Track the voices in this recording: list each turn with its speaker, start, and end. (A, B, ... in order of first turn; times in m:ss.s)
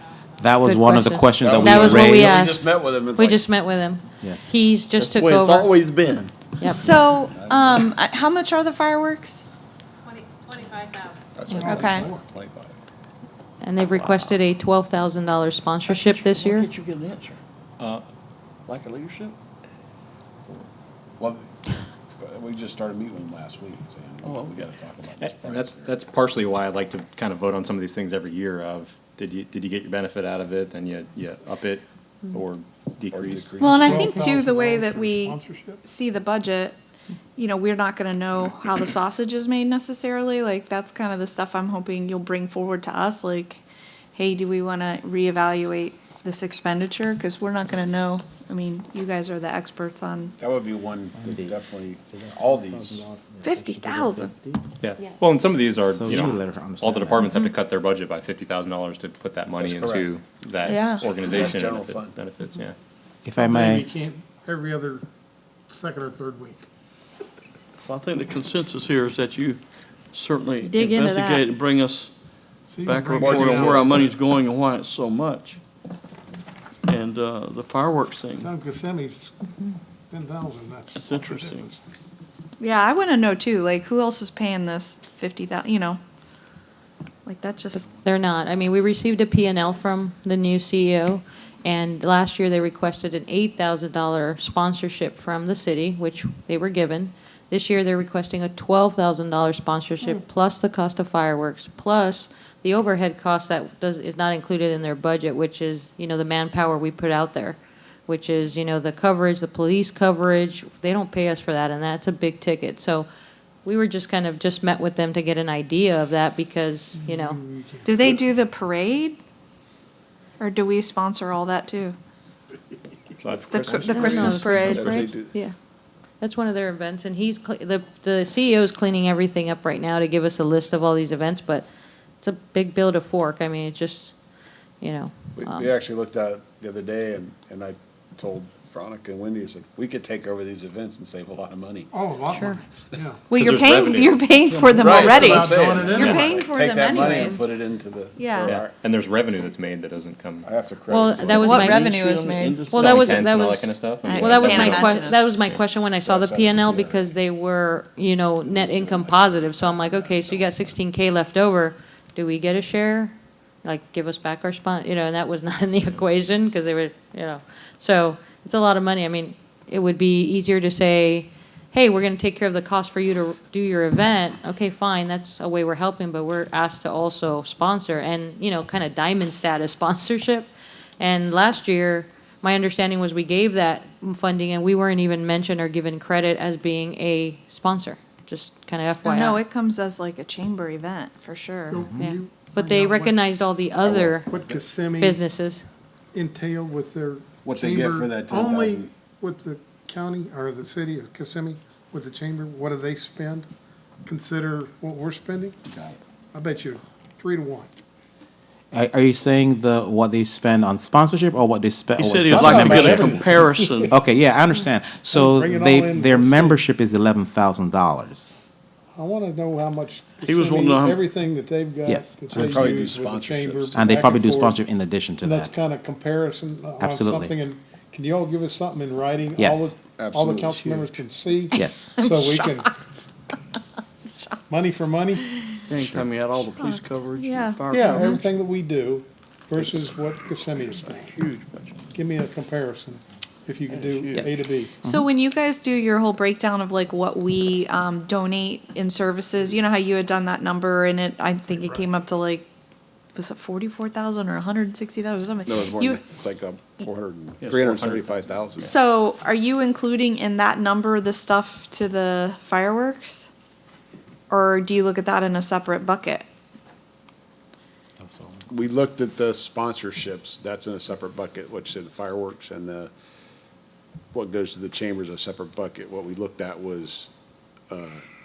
0:00.4-0:02.6 A
0:00.6-0:05.7 B
0:01.4-0:03.4 C
0:04.2-0:04.8 A
0:05.0-0:06.4 D
0:06.6-0:06.9 B
0:06.6-0:09.4 E
0:07.0-0:07.7 C
0:11.4-0:12.8 C
0:11.5-0:12.3 F
0:11.5-0:11.8 B
0:11.6-0:12.1 E
0:13.6-0:16.7 B
0:15.9-0:17.4 D
0:17.8-0:18.0 G
0:18.7-0:19.3 D
0:21.2-0:26.0 C
0:24.2-0:24.7 D
0:25.2-0:33.7 G
0:33.1-0:33.8 C
0:33.6-0:36.8 E
0:33.7-0:35.8 F
0:37.4-0:43.6 E
0:44.1-0:50.3 E
0:50.4-0:53.1 C
0:52.3-0:54.6 A
0:53.4-0:54.3 E
0:54.8-1:02.8 G
0:55.9-0:57.3 A
0:59.6-1:00.1 C
1:00.6-1:01.2 E
1:01.2-1:02.2 C
1:03.2-1:03.8 A
1:03.4-1:05.1 F
1:05.7-1:06.7 F
1:07.8-1:09.6 D
1:10.1-1:12.1 D
1:10.6-1:11.5 E
1:12.7-1:13.9 F
1:12.8-1:15.6 D
1:13.1-1:14.0 C
1:16.9-1:18.5 D
1:18.4-1:19.4 F
1:20.1-1:21.8 F
1:21.0-1:21.7 D
1:22.6-1:26.0 E
1:27.3-1:27.9 E
1:27.8-1:53.1 B
1:53.6-1:57.4 B
1:57.0-1:58.2 F
1:57.8-1:59.2 E
2:00.4-2:02.0 E
2:03.2-2:04.7 G
2:03.5-2:05.5 E
2:03.9-2:05.1 B
2:04.2-2:05.3 C
2:06.2-2:11.7 B
2:12.2-2:14.1 B
2:14.8-2:15.7 B
2:15.4-2:21.9 C
2:21.9-2:23.3 F
2:22.3-2:22.6 B
2:23.3-2:27.6 E
2:23.3-2:24.3 G
2:24.7-2:28.7 C
2:24.8-2:26.3 F
2:26.0-2:26.2 G
2:28.2-2:28.6 E
2:28.4-2:30.5 G
2:30.4-2:31.6 C
2:30.9-2:31.9 B
2:31.3-2:33.0 E
2:31.4-2:33.2 D
2:32.7-3:09.4 B
2:32.7-2:35.6 G
2:34.0-2:35.2 E
2:36.0-2:37.1 C
2:38.5-2:40.7 C
3:09.0-3:11.8 E
3:11.7-3:13.2 F
3:12.0-3:14.3 B
3:13.8-3:14.2 C
3:14.2-3:15.2 F
3:15.0-3:15.7 B
3:16.1-3:23.5 F
3:17.4-3:18.9 C
3:24.1-3:25.6 F
3:25.7-3:26.0 C
3:26.3-3:27.7 F
3:28.7-3:38.3 A
3:32.0-3:33.9 D
3:32.3-3:33.9 F
3:35.1-3:36.6 F
3:38.9-3:44.6 F
3:40.2-3:41.0 D
3:41.8-3:42.7 A
3:42.3-3:43.9 C
3:43.7-3:45.5 A
3:45.2-3:52.7 F
3:46.8-3:47.3 A
3:49.4-3:49.8 A
3:49.9-3:50.9 C
3:51.6-3:51.9 A
3:51.6-3:53.1 E
3:54.5-3:55.3 F
3:55.7-3:58.3 D
3:56.5-3:58.2 E
3:57.7-4:01.1 F
4:00.6-4:01.8 D
4:01.9-4:04.7 F
4:03.7-4:04.4 D
4:04.8-4:12.4 E
4:11.6-4:11.8 F
4:13.2-4:16.1 E
4:15.5-4:18.7 C
4:17.5-4:18.7 G
4:18.6-4:23.3 E
4:24.3-4:26.2 E
4:28.0-4:28.4 A
4:28.5-4:32.9 C
4:34.1-4:37.1 C
4:37.7-4:38.0 C